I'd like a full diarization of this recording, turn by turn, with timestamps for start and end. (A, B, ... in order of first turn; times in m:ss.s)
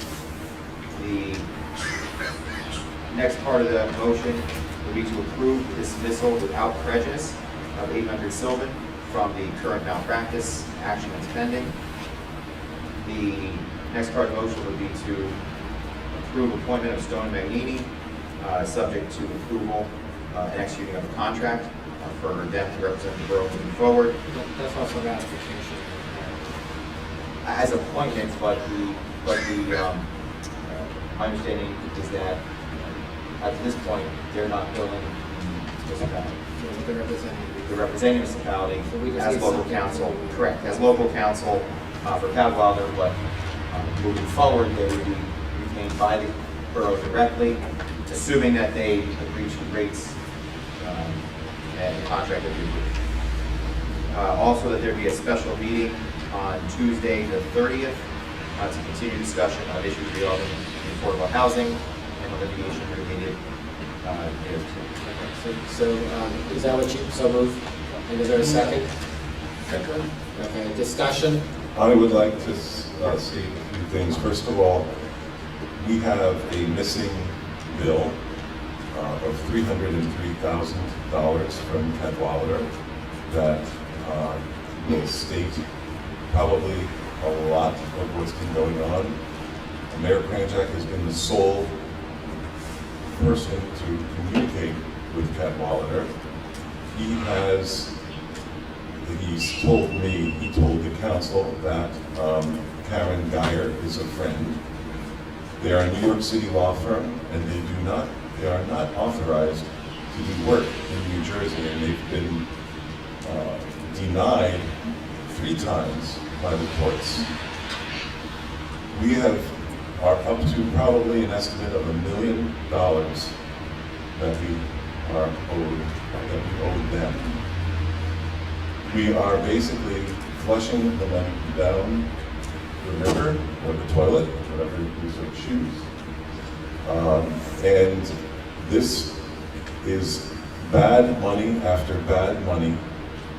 0:00.9-0:01.5 A
0:03.1-0:11.7 A
0:13.0-0:15.4 A
0:16.1-0:17.9 A
0:18.4-0:24.2 A
0:24.3-0:26.5 B
0:27.4-0:30.0 A
0:30.7-0:36.4 A
0:36.6-0:38.0 B
0:37.6-0:43.2 A
0:38.9-0:40.8 B
0:43.7-0:50.2 A
0:50.8-0:51.2 A
0:51.7-0:52.9 A
0:54.1-0:58.0 A
0:58.6-1:03.4 A
1:04.0-1:04.9 A
1:05.0-1:08.9 B
1:10.3-1:11.4 B
1:11.8-1:14.9 C
1:15.8-1:18.2 C
1:18.9-1:22.7 C
1:23.3-1:25.6 C
1:26.3-1:29.2 C
1:29.9-1:31.7 C
1:33.1-1:36.1 C
1:36.9-1:37.9 C
1:39.0-1:44.6 C
1:45.6-1:52.5 C
1:53.2-1:57.3 C
1:58.9-2:03.3 C
2:04.2-2:07.4 C
2:08.8-2:12.1 C
2:12.8-2:15.8 C
2:16.8-2:19.2 C
2:19.8-2:22.8 C